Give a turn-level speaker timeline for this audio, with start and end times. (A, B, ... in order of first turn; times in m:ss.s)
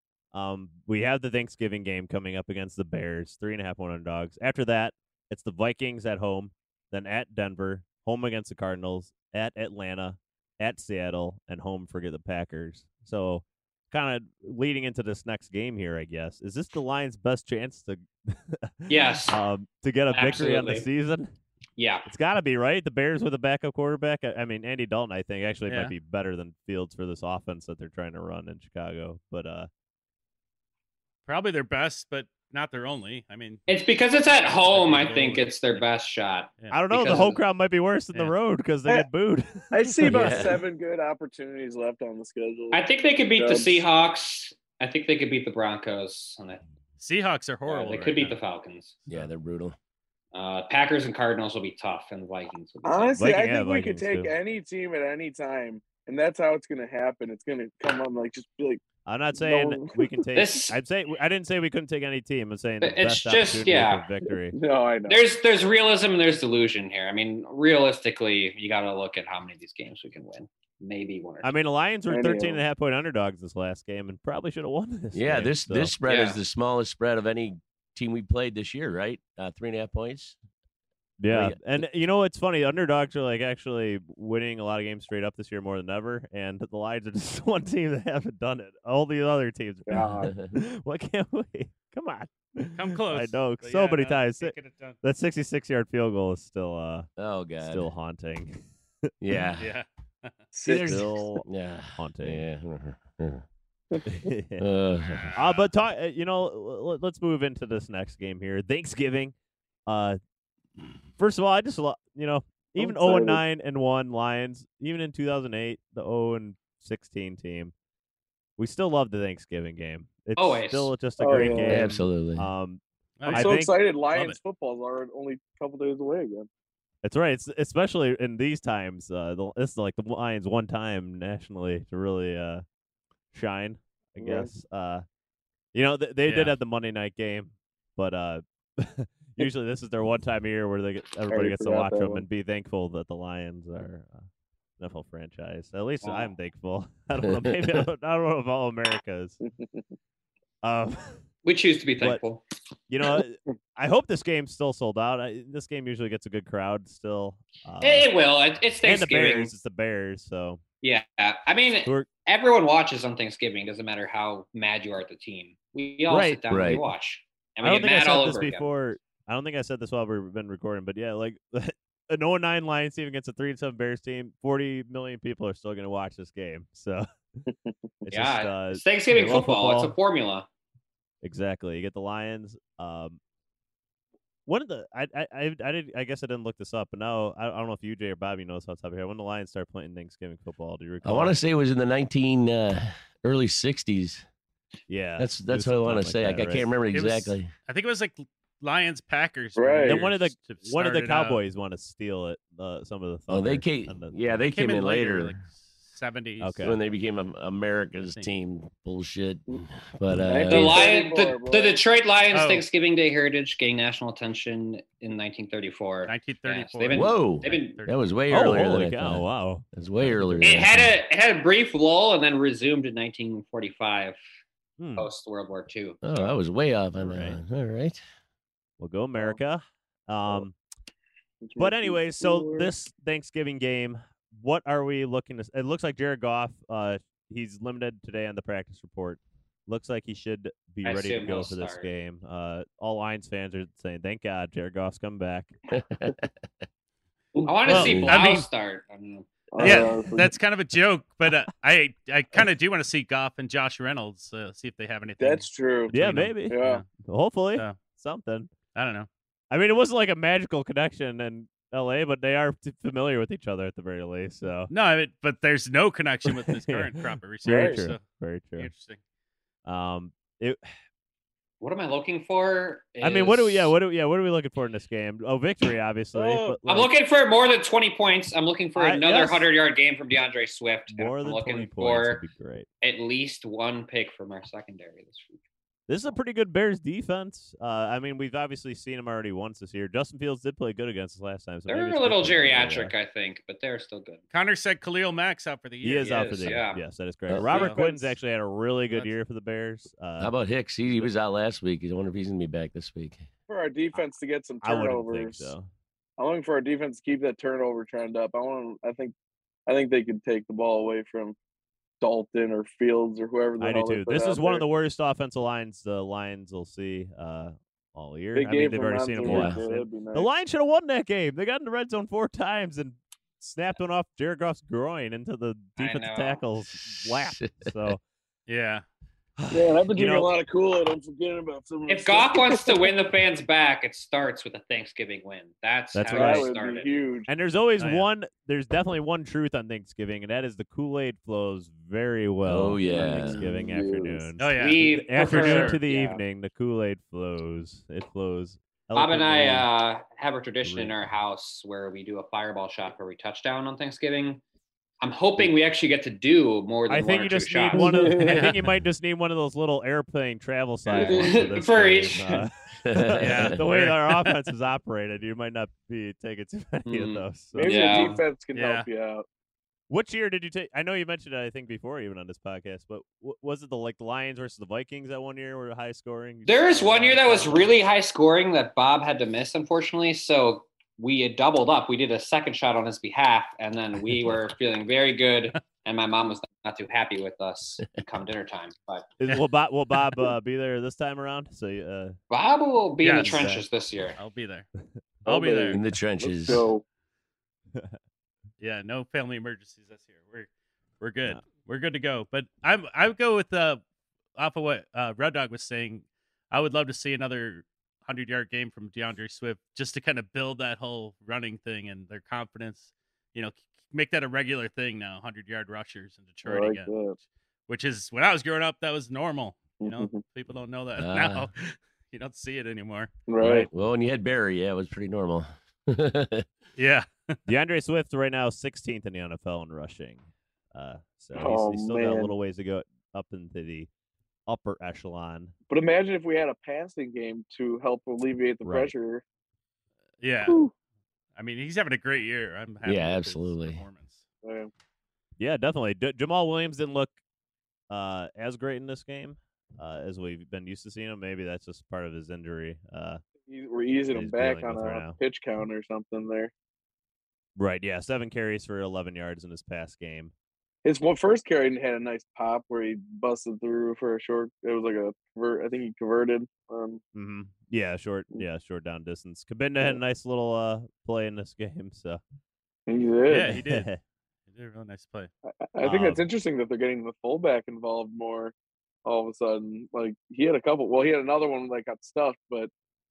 0:00.3-0:21.3 A
0:18.9-0:19.4 B
0:20.1-0:20.9 B
0:21.8-0:22.1 B
0:22.1-0:29.7 A
0:25.7-0:25.9 C
0:31.3-0:33.6 C
0:33.7-0:37.4 B
0:34.5-0:35.8 C
0:36.7-0:40.4 A
0:39.7-0:42.8 D
0:40.0-0:40.6 E
0:42.7-0:46.6 B
0:43.4-0:43.8 D
0:47.0-0:48.4 C
0:47.7-0:48.0 D
0:47.9-0:49.0 B
0:49.1-0:49.8 E
0:50.3-0:53.2 B
0:52.8-0:58.8 D
0:53.2-0:54.3 A
0:59.1-1:04.6 A
0:59.4-1:00.2 D
1:00.4-1:00.8 B
1:02.8-1:04.1 B
1:04.5-1:05.2 D
1:05.1-1:11.5 B
1:11.4-1:15.9 A
1:12.1-1:12.6 D
1:15.1-1:20.4 E
1:16.0-1:16.4 B
1:21.2-1:37.1 A
1:21.3-1:21.6 E
1:29.9-1:30.3 D
1:30.2-1:30.6 E
1:32.8-1:35.0 C
1:37.2-1:37.9 E
1:37.6-1:38.6 A
1:39.2-1:39.7 E
1:39.6-1:40.4 C
1:40.5-1:41.0 D
1:40.6-1:43.4 E
1:40.7-1:42.4 A
1:44.1-1:44.6 A
1:44.6-1:45.3 E
1:45.0-1:45.7 C
1:45.4-1:49.4 A
1:49.9-1:50.2 A
1:51.2-1:57.7 A
1:52.8-1:53.4 D
1:58.6-2:03.7 A
2:00.4-2:00.9 B
2:01.2-2:01.9 D
2:01.4-2:02.5 E
2:03.2-2:03.6 C
2:03.3-2:06.5 D
2:04.1-2:04.4 C
2:07.0-2:12.6 A
2:13.3-2:15.0 A
2:14.2-2:14.5 D
2:15.7-2:24.3 A
2:16.3-2:16.5 C
2:21.3-2:22.2 D
2:24.8-2:29.4 A
2:26.0-2:26.3 B
2:29.5-2:29.8 D
2:30.6-2:31.2 A
2:31.4-2:32.4 B
2:32.9-2:38.1 A
2:37.8-2:39.5 B
2:38.8-2:40.6 A
2:40.8-2:48.7 B
2:46.1-2:46.8 A
2:46.5-2:46.8 E
2:47.6-2:57.1 A
2:57.5-2:57.7 D
2:58.0-3:00.0 A
2:58.1-3:00.5 B
3:01.2-3:03.2 A
3:04.5-3:11.4 A
3:11.0-3:14.2 E
3:14.9-3:16.7 A
3:15.2-3:17.5 E
3:16.9-3:21.4 C
3:19.6-3:20.0 D
3:19.9-3:24.4 A
3:23.3-3:25.4 E
3:24.4-3:26.8 C
3:26.4-3:26.8 A
3:26.6-3:30.8 E
3:30.1-3:31.8 D
3:30.5-3:37.8 B
3:32.3-3:32.6 C
3:36.1-3:38.0 C
3:36.9-3:40.9 E
3:38.3-3:40.7 A
3:40.4-3:44.2 B
3:44.8-3:45.1 A
3:45.0-3:46.0 B
3:46.0-3:48.0 E
3:47.0-3:47.4 A
3:48.8-3:50.6 A
3:51.4-3:52.7 D
3:51.6-4:05.5 A
4:00.8-4:01.9 B
4:05.7-4:06.3 E
4:07.4-4:09.3 B
4:07.7-4:08.0 A
4:07.7-4:08.5 C
4:07.7-4:08.1 E
4:09.5-4:10.3 D
4:09.6-4:16.8 C
4:15.2-4:16.8 D
4:15.9-4:18.5 A
4:18.8-4:19.1 C
4:19.5-4:24.7 A
4:24.7-4:28.0 C
4:26.3-4:28.7 A
4:27.4-4:27.8 D
4:28.6-4:29.0 C
4:29.6-4:30.7 A
4:31.6-4:33.7 B
4:33.0-4:36.9 A
4:36.2-4:36.6 D
4:36.7-4:42.2 B
4:38.8-4:39.5 A
4:40.9-4:42.7 A
4:42.8-4:45.4 B
4:45.9-4:52.9 A
4:51.7-4:54.2 B
4:54.3-4:56.6 C
4:55.8-5:00.3 A
4:56.0-4:56.8 B
4:57.3-4:57.6 E
4:57.4-4:58.1 D
4:57.5-4:57.8 C
5:00.2-5:03.2 E
5:03.5-5:05.5 D
5:04.6-5:05.7 A
5:06.2-5:09.1 D
5:09.7-5:11.4 D
5:12.0-5:14.6 D
5:13.6-5:28.0 A
5:18.4-5:20.3 D
5:19.2-5:19.6 E
5:25.8-5:26.4 B
5:27.3-5:27.7 E
5:28.5-5:28.8 C
5:29.4-5:30.3 A
5:29.5-5:32.9 D
5:31.9-5:36.9 B
5:35.9-5:36.5 A
5:36.1-5:37.3 D
5:37.3-5:49.7 A
5:37.8-5:38.1 C
5:42.4-5:43.4 E
5:42.9-5:44.3 D
5:44.4-5:45.8 C
5:44.5-5:46.2 B
5:49.0-5:54.4 B
5:50.6-5:51.0 A
5:55.0-5:57.9 B
5:56.9-6:07.9 A
5:57.7-5:58.4 D
5:58.2-5:58.6 C
6:00.9-6:02.4 B
6:02.8-6:03.6 E
6:03.2-6:04.4 C
6:06.8-6:08.2 B
6:07.5-6:09.2 D
6:07.9-6:08.9 C
6:09.9-6:17.7 A
6:16.5-6:29.1 B
6:29.2-6:32.2 A
6:32.3-6:34.2 B
6:33.0-6:33.5 C
6:33.2-6:33.6 A
6:34.2-6:34.7 C
6:35.2-6:36.8 D
6:35.3-6:35.8 C
6:35.7-6:36.6 E
6:38.6-6:40.5 C
6:41.0-6:43.8 C
6:44.4-7:03.1 C
6:56.5-6:57.2 D
6:59.8-7:00.2 D
7:01.0-7:01.5 E
7:03.3-7:03.7 D
7:03.4-7:03.7 A
7:03.5-7:06.5 E
7:06.8-7:07.4 C
7:07.5-7:13.9 A
7:11.4-7:12.3 D
7:14.5-7:15.5 A
7:15.7-7:19.2 D
7:18.6-7:18.9 A
7:20.2-7:20.6 C
7:20.5-7:20.7 D
7:21.4-7:24.2 C
7:22.8-7:23.8 E
7:24.4-7:24.7 D
7:25.4-7:27.2 A
7:27.9-7:33.2 A
7:33.5-7:36.5 D
7:34.1-7:35.2 A
7:37.6-7:40.3 A
7:40.8-7:47.0 D
7:47.1-7:52.2 A
7:52.9-7:53.6 D
7:53.3-7:53.9 C
7:53.5-7:54.0 A
7:54.5-7:55.3 C
7:55.7-7:58.5 D
7:55.8-7:56.2 A
7:59.0-8:02.7 D